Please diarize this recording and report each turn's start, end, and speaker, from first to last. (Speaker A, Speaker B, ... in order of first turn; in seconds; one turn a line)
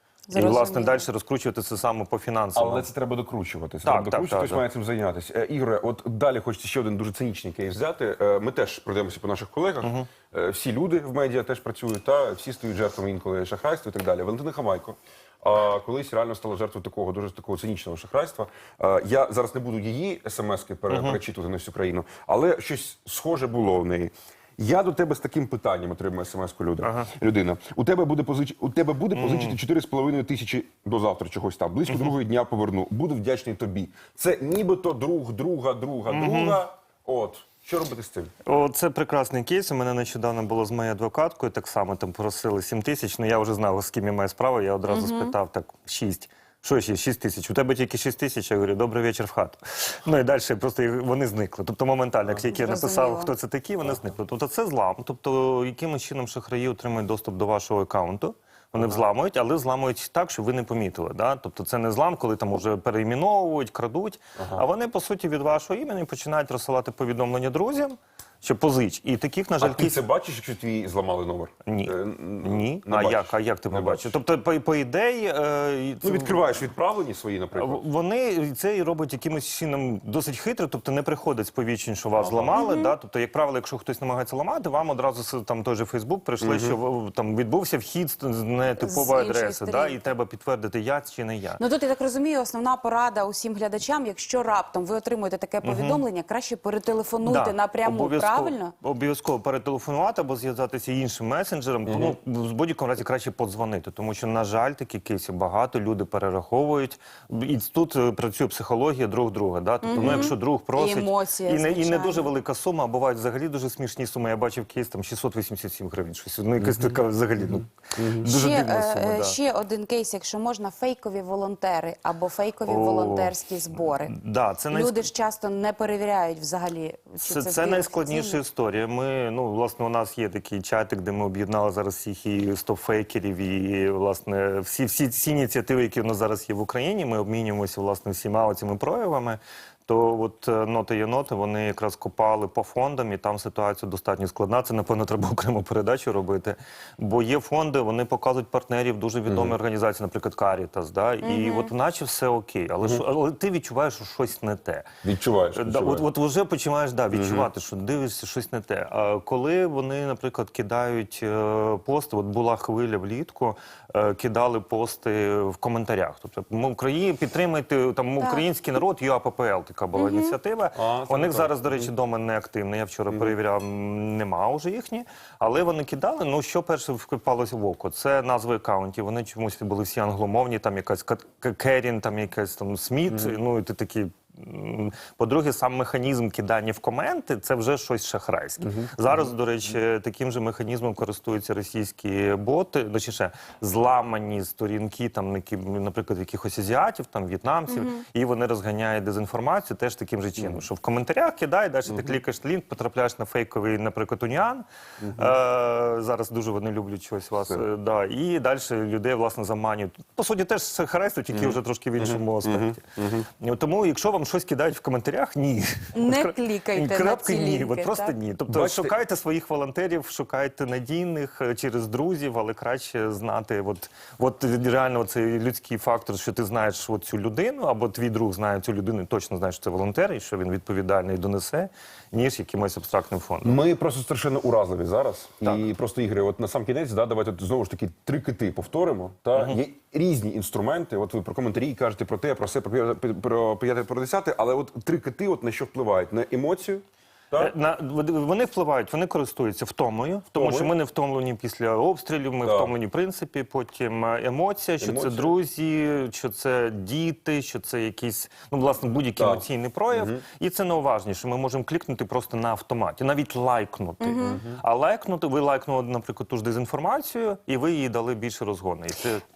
Speaker A: 0.3-1.0
Speaker B: 0.3-2.9
Speaker C: 2.5-38.3
Speaker B: 3.8-4.6
Speaker B: 9.8-10.1
Speaker B: 20.9-21.2
Speaker B: 26.8-27.1
Speaker B: 29.1-29.6
Speaker B: 36.1-36.6
Speaker B: 38.4-70.0
Speaker A: 44.9-45.3
Speaker A: 52.5-53.3
Speaker C: 64.4-64.6
Speaker C: 69.6-74.2
Speaker B: 71.7-76.5
Speaker C: 76.0-77.8
Speaker B: 77.5-91.6
Speaker C: 82.2-82.5
Speaker A: 82.5-82.9
Speaker C: 86.4-86.8
Speaker A: 88.8-90.1
Speaker A: 91.6-98.7
Speaker B: 95.6-96.0
Speaker B: 97.2-119.3
Speaker C: 101.8-102.2
Speaker A: 109.8-112.3
Speaker C: 109.9-110.3
Speaker A: 118.2-124.1
Speaker B: 122.7-125.0
Speaker A: 124.7-128.4
Speaker B: 127.2-154.9
Speaker C: 149.3-149.6
Speaker A: 151.2-151.7
Speaker C: 155.0-156.1
Speaker B: 155.6-212.8
Speaker C: 157.1-157.5
Speaker A: 168.2-168.4
Speaker A: 169.9-170.3
Speaker C: 170.7-171.9
Speaker C: 183.1-183.4
Speaker C: 188.6-189.3
Speaker A: 197.7-198.0
Speaker C: 200.4-200.6
Speaker C: 205.0-205.3
Speaker C: 211.3-213.3
Speaker B: 213.4-233.6
Speaker A: 215.9-218.2
Speaker C: 218.5-218.9
Speaker C: 233.4-247.5
Speaker B: 239.3-239.6
Speaker B: 247.4-269.2
Speaker C: 250.3-250.7
Speaker C: 252.4-252.7
Speaker C: 254.8-255.3
Speaker C: 259.2-260.2
Speaker A: 264.0-264.4
Speaker C: 264.2-264.6